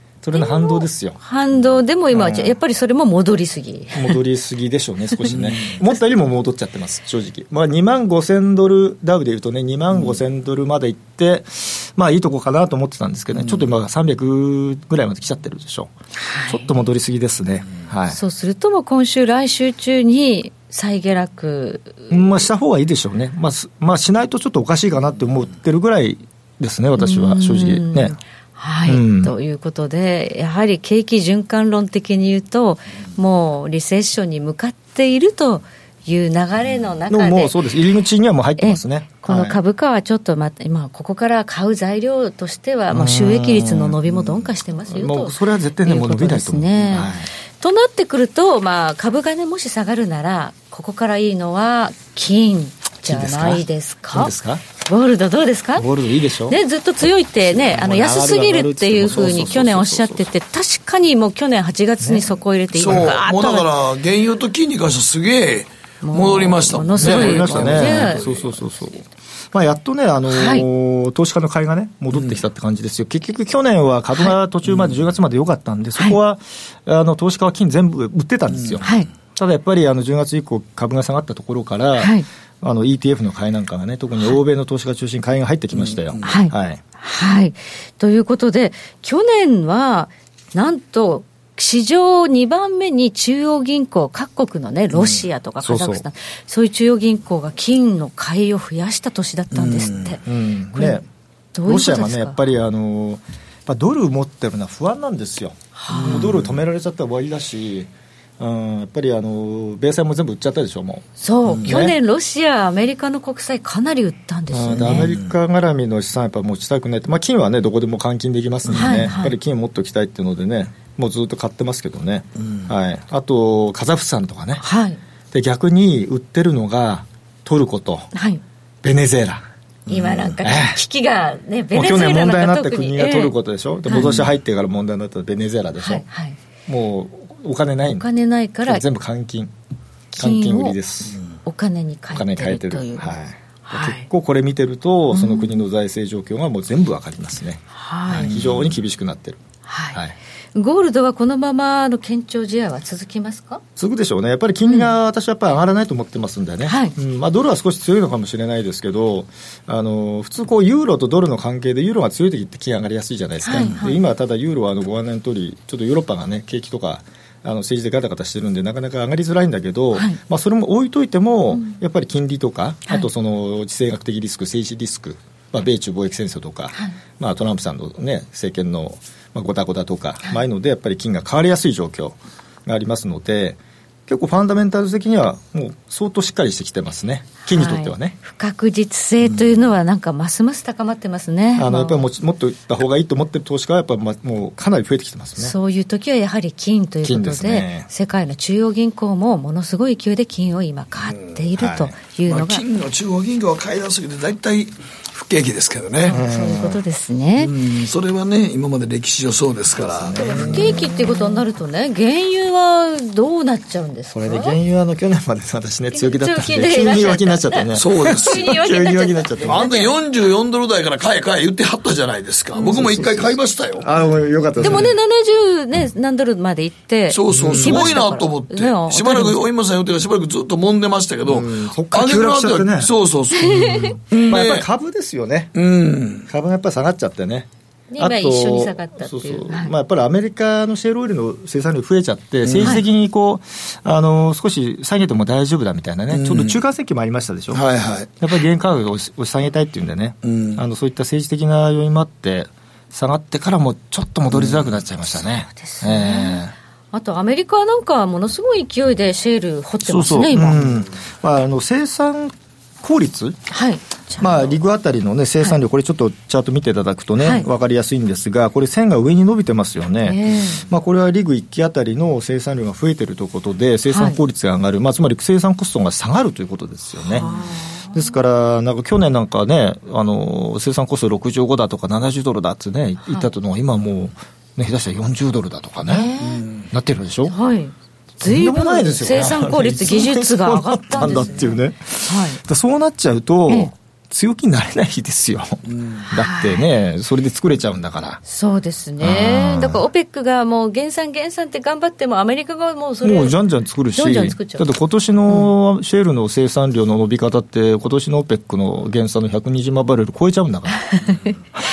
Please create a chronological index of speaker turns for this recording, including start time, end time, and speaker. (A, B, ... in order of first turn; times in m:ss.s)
0:00.2-0:01.2 A
0:00.4-0:04.2 B
0:02.1-0:02.6 A
0:04.0-0:15.9 A
0:05.3-0:05.8 C
0:13.4-0:13.6 C
0:16.2-0:16.7 B
0:16.5-0:18.2 A
0:18.1-0:22.1 B
0:22.1-0:28.2 A
0:27.0-0:37.6 B
0:28.8-0:29.3 A
0:37.1-0:39.6 A
0:38.6-0:54.3 B
0:42.9-0:47.3 A
0:53.0-0:54.6 A
0:54.8-0:55.9 B
0:55.8-0:56.6 A
0:56.5-1:03.7 B
0:57.4-1:00.3 A
1:02.0-1:02.3 A
1:02.7-1:08.5 C
1:02.9-1:03.2 A
1:06.0-1:08.3 B
1:07.0-1:26.8 A
1:10.3-1:10.6 B
1:14.7-1:15.0 C
1:18.5-1:19.0 C
1:18.8-1:19.1 B
1:22.0-1:22.3 B
1:25.7-1:26.3 C
1:26.2-1:40.2 B
1:35.0-1:35.2 C
1:35.6-1:36.0 A
1:39.5-1:40.2 C
1:40.2-1:41.0 A
1:40.7-1:41.0 B
1:41.5-1:42.4 B
1:41.6-1:52.0 A
1:45.8-1:46.3 B
1:45.9-1:46.6 C
1:51.2-1:55.1 B
1:54.5-2:04.6 A
1:54.9-1:55.3 C
1:58.7-1:59.1 C
1:58.8-1:59.3 B
2:02.4-2:02.7 C
2:04.6-2:05.0 B
2:05.3-2:08.1 A
2:08.1-2:08.4 B
2:08.8-2:09.4 A
2:09.9-2:10.4 C
2:09.9-2:14.1 B
2:10.4-2:10.8 A
2:11.7-2:16.0 A
2:13.9-2:14.3 C
2:15.8-2:16.4 B
2:16.7-2:18.1 A
2:17.9-2:18.8 B
2:18.6-2:19.5 A
2:20.1-2:20.8 B
2:20.2-2:21.2 A
2:21.4-2:23.1 B
2:22.1-2:29.4 A
2:23.6-2:24.1 B
2:25.1-2:25.5 B
2:27.7-2:28.3 B
2:28.2-2:28.8 C
2:29.6-2:30.0 B
2:30.6-2:33.6 B
2:33.8-3:08.2 A
2:34.6-2:34.9 B
2:36.6-2:37.0 B
2:43.4-2:44.0 B
3:07.5-3:12.0 B
3:11.6-3:15.6 A
3:15.4-3:22.6 B
3:17.0-3:17.9 A
3:21.0-3:21.4 C
3:21.6-3:22.0 A
3:22.3-3:26.2 C
3:26.0-3:27.5 B
3:26.1-3:26.8 A
3:27.4-3:30.9 C
3:29.8-3:31.2 A
3:30.1-3:34.6 B
3:34.1-3:39.7 A
3:35.9-3:39.9 B
3:37.7-3:38.5 C
3:39.4-3:43.9 C
3:42.6-3:44.9 A
3:44.6-3:49.4 B
3:44.6-3:44.9 C
3:47.1-3:54.6 C
3:47.3-3:48.0 A
3:51.2-3:52.9 A
3:53.4-3:54.0 B
3:54.2-3:55.6 A
3:55.6-3:56.3 C
3:56.3-4:07.6 A
3:57.9-3:59.7 B
4:02.4-4:02.8 C
4:06.1-4:06.6 C
4:07.5-4:08.1 C
4:08.2-4:16.6 A
4:10.2-4:10.6 C
4:14.3-4:14.7 C
4:15.5-4:16.4 B
4:16.9-4:20.6 B
4:19.8-4:23.4 A
4:23.5-4:24.5 B
4:24.2-4:37.3 A
4:27.2-4:27.5 B
4:30.0-4:30.6 B
4:33.9-4:34.2 B
4:37.0-4:38.0 B
4:37.9-4:46.1 A
4:45.9-4:46.4 B
4:46.2-4:46.7 C
4:46.7-4:47.3 A
4:47.3-4:52.4 B
4:48.2-4:58.2 A
4:55.7-4:56.0 C
4:56.1-4:56.7 B
4:58.3-5:03.4 B
4:59.0-4:59.8 A
5:03.0-5:10.9 A
5:03.9-5:04.7 B
5:10.9-5:11.4 B